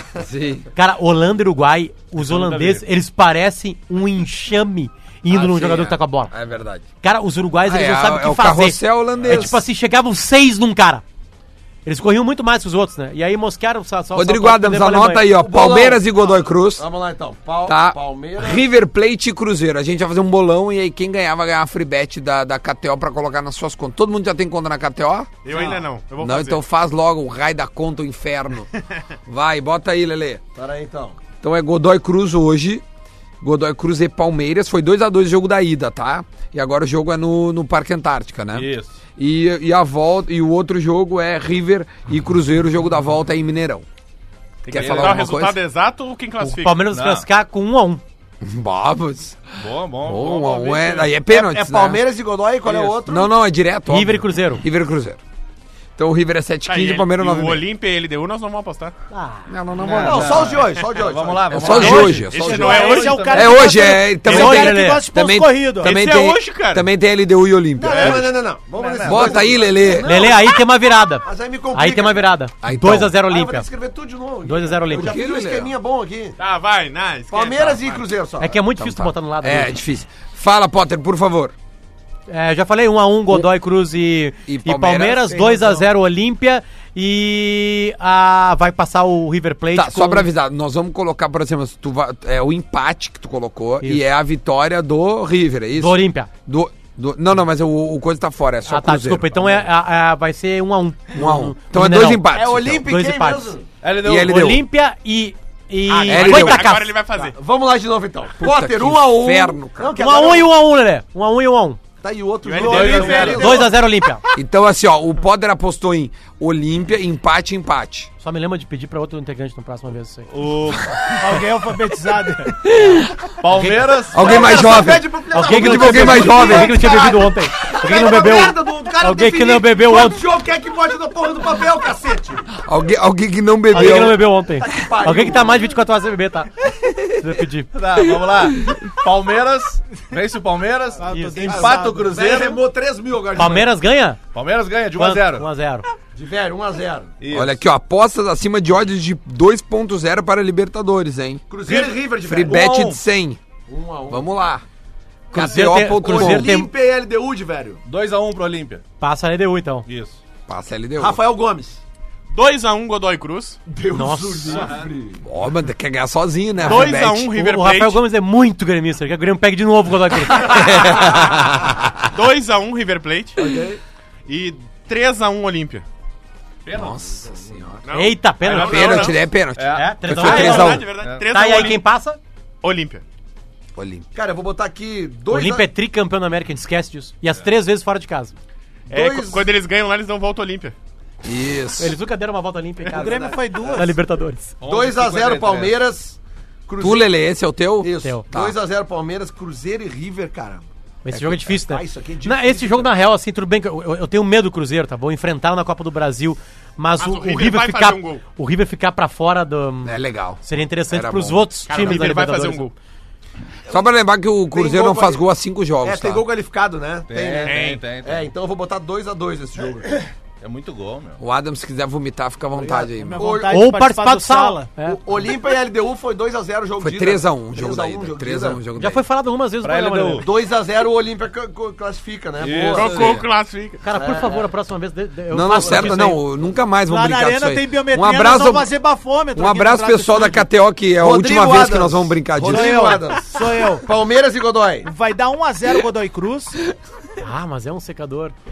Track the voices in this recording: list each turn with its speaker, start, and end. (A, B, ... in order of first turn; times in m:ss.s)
0:00.2-0:00.7 A
0:00.8-0:06.3 B
0:02.2-0:02.8 C
0:05.3-0:06.8 A
0:07.0-0:11.0 B
0:07.6-0:09.6 A
0:09.1-0:09.5 C
0:11.9-0:15.3 B
0:14.2-0:16.9 A
0:15.3-0:18.6 D
0:17.7-0:25.4 A
0:25.4-0:26.6 E
0:25.5-0:25.8 D
0:26.2-0:28.7 A
0:29.3-0:30.4 A
0:30.6-0:31.2 D
0:31.3-0:32.8 A
0:33.4-0:43.8 A
0:38.5-0:39.0 C
0:44.7-0:46.8 E
0:44.7-0:45.6 A
0:44.7-0:45.4 C
0:46.4-0:48.0 B
0:46.9-0:47.3 C
0:48.4-0:49.5 A
0:49.6-0:51.2 C
0:50.0-0:52.0 A
0:51.3-0:53.3 D
0:52.6-0:53.0 C
0:53.1-0:55.2 A
0:53.9-0:54.6 B
0:56.0-0:57.6 A
0:56.7-0:58.9 E
0:59.1-1:00.0 B
0:59.5-1:00.6 A
0:59.8-1:03.8 C
1:00.0-1:01.9 D
1:01.5-1:08.3 A
1:01.7-1:02.2 B
1:02.0-1:03.4 E
1:02.4-1:06.0 F
1:04.2-1:05.0 B
1:04.3-1:04.7 E
1:05.8-1:06.9 E
1:07.8-1:10.5 D
1:07.9-1:09.9 C
1:09.0-1:10.3 A
1:10.0-1:13.7 B
1:11.2-1:12.3 D
1:12.6-1:13.2 A
1:13.2-1:16.4 D
1:14.4-1:15.2 B
1:14.9-1:15.7 A
1:16.4-1:18.0 E
1:17.3-1:18.6 D
1:18.4-1:19.8 B
1:18.7-1:21.5 A
1:22.3-1:30.3 B
1:24.5-1:25.4 A
1:25.3-1:25.9 F
1:29.7-1:39.5 A
1:35.8-1:36.3 B
1:38.7-1:43.5 B
1:41.1-1:42.8 A
1:42.3-1:43.7 D
1:43.8-1:44.4 C
1:44.0-1:44.6 A
1:44.2-1:46.9 B
1:45.9-1:47.4 E
1:46.0-1:46.7 A
1:47.2-1:50.5 D
1:48.4-1:49.9 A
1:50.0-1:51.8 B
1:52.0-1:53.8 D
1:52.4-1:53.4 E
1:52.6-1:53.7 C
1:52.7-1:53.3 F
1:53.2-1:54.2 B
1:54.3-1:58.1 A
1:58.2-2:00.3 B
2:00.3-2:01.0 C
2:01.2-2:02.6 F
2:02.6-2:03.4 A
2:03.4-2:04.9 C
2:04.1-2:06.8 A
2:04.2-2:12.5 D
2:05.3-2:10.2 B
2:12.6-2:14.2 A
2:13.7-2:17.7 B
2:14.6-2:15.6 D
2:17.7-2:22.6 C
2:21.0-2:22.2 F
2:21.1-2:21.5 B
2:21.4-2:23.7 D
2:23.4-2:24.2 B
2:24.3-2:25.5 C
2:25.0-2:25.9 B
2:26.2-2:27.2 D
2:27.2-2:27.6 C
2:27.3-2:31.5 A
2:31.5-2:32.7 D
2:31.6-2:33.1 C
2:32.2-2:33.4 A
2:33.7-2:34.3 D
2:34.1-2:34.6 A
2:35.3-2:36.5 A
2:35.3-2:36.7 B
2:35.9-2:37.8 D
2:37.8-2:38.8 C
2:39.0-2:39.9 B
2:39.9-2:40.2 C
2:40.5-2:41.2 A
2:41.0-2:41.8 D
2:42.3-2:43.6 E
2:43.7-2:45.2 D
2:43.9-2:44.7 B
2:45.2-2:47.3 A
2:46.6-2:51.0 B
2:46.6-2:48.0 E
2:50.4-2:52.1 A
2:52.1-2:53.4 E
2:53.4-2:53.8 D
2:54.3-2:55.8 E
2:56.7-2:57.3 C
2:56.7-2:57.1 A
2:56.8-2:57.8 D
2:57.9-2:59.2 E
2:57.9-2:59.2 B
2:58.5-3:00.9 A
2:58.6-3:01.3 C
2:59.7-3:02.2 B
3:00.1-3:01.8 E
3:02.6-3:03.0 E
3:03.8-3:04.1 A
3:04.1-3:05.7 D
3:05.3-3:08.3 B
3:07.3-3:07.5 C
3:08.9-3:09.5 D
3:08.9-3:10.8 E
3:11.2-3:12.0 A
3:11.8-3:14.5 B
3:12.9-3:13.9 D
3:12.9-3:14.0 F
3:14.6-3:15.8 C
3:14.6-3:17.1 D
3:16.8-3:18.5 A
3:17.8-3:20.7 D
3:21.0-3:32.6 B
3:21.1-3:21.5 A
3:21.5-3:22.9 D
3:27.0-3:28.2 E
3:29.8-3:32.1 A
3:31.7-3:32.7 E
3:33.7-3:36.2 A
3:34.5-3:35.2 D
3:35.8-3:40.0 D
3:37.1-3:38.3 C
3:37.4-3:37.8 E
3:40.4-3:41.2 C
3:41.2-3:43.3 A
3:42.6-3:43.6 D
3:43.0-3:44.7 F
3:43.5-3:45.0 B
3:44.8-3:48.6 D
3:46.8-3:49.0 A
3:48.8-3:50.3 B
3:49.6-3:50.3 C
3:50.2-3:53.1 D
3:52.4-3:53.2 C
3:52.7-3:53.8 E
3:52.9-3:53.2 A
3:53.8-3:56.2 B
3:53.9-3:54.5 D
3:55.3-3:58.7 A
3:56.9-4:00.5 F
3:59.3-4:03.0 A
4:01.0-4:04.9 D
4:02.4-4:03.9 F
4:04.8-4:06.6 F
4:07.2-4:08.4 B